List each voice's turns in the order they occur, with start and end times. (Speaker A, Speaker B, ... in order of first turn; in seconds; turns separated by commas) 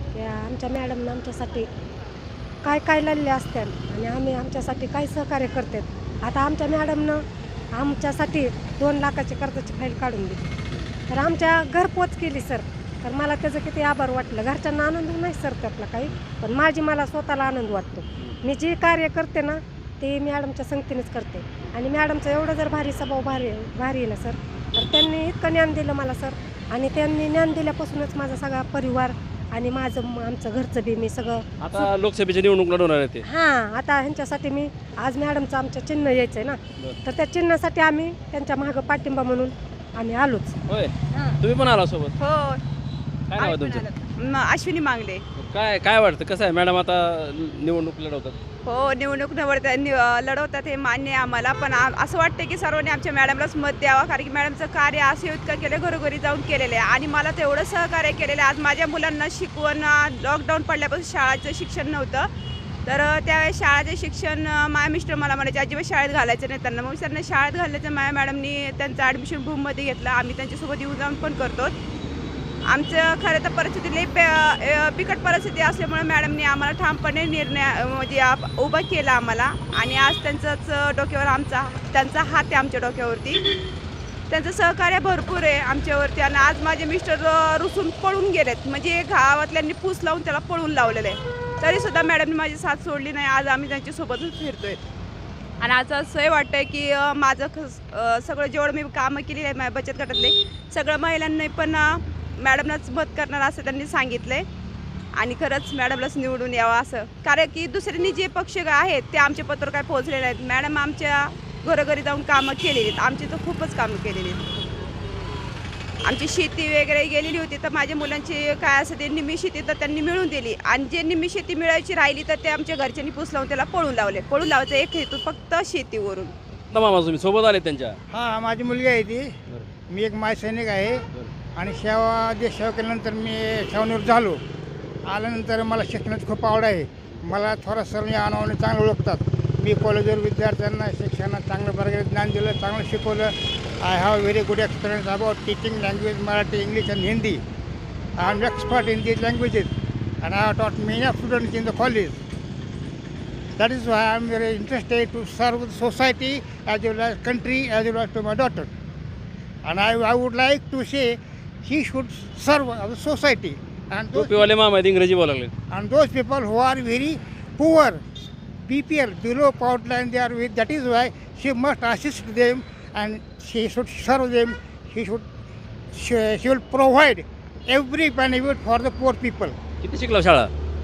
Speaker A: 0.1-1.7, Speaker A: 2.6-10.5, Speaker A: 11.1-31.9, Speaker B: 31.6-33.2, Speaker A: 33.2-40.6, Speaker B: 40.7-42.1, Speaker C: 42.2-42.6, Speaker B: 43.3-43.9, Speaker C: 43.4-45.2, Speaker B: 45.4-48.4, Speaker C: 48.6-62.3, Speaker C: 62.9-71.7, Speaker C: 72.7-83.4, Speaker C: 84.3-94.8, Speaker C: 95.6-104.4, Speaker C: 105.2-114.5, Speaker C: 116.0-126.3, Speaker B: 126.7-128.0, Speaker D: 128.1-129.3, Speaker D: 129.9-134.4, Speaker D: 135.1-147.4, Speaker D: 148.2-152.2, Speaker D: 153.6-158.7, Speaker D: 159.6-164.5, Speaker B: 164.1-165.5, Speaker D: 165.7-168.0, Speaker D: 168.6-175.2, Speaker D: 175.9-179.5, Speaker B: 179.8-180.5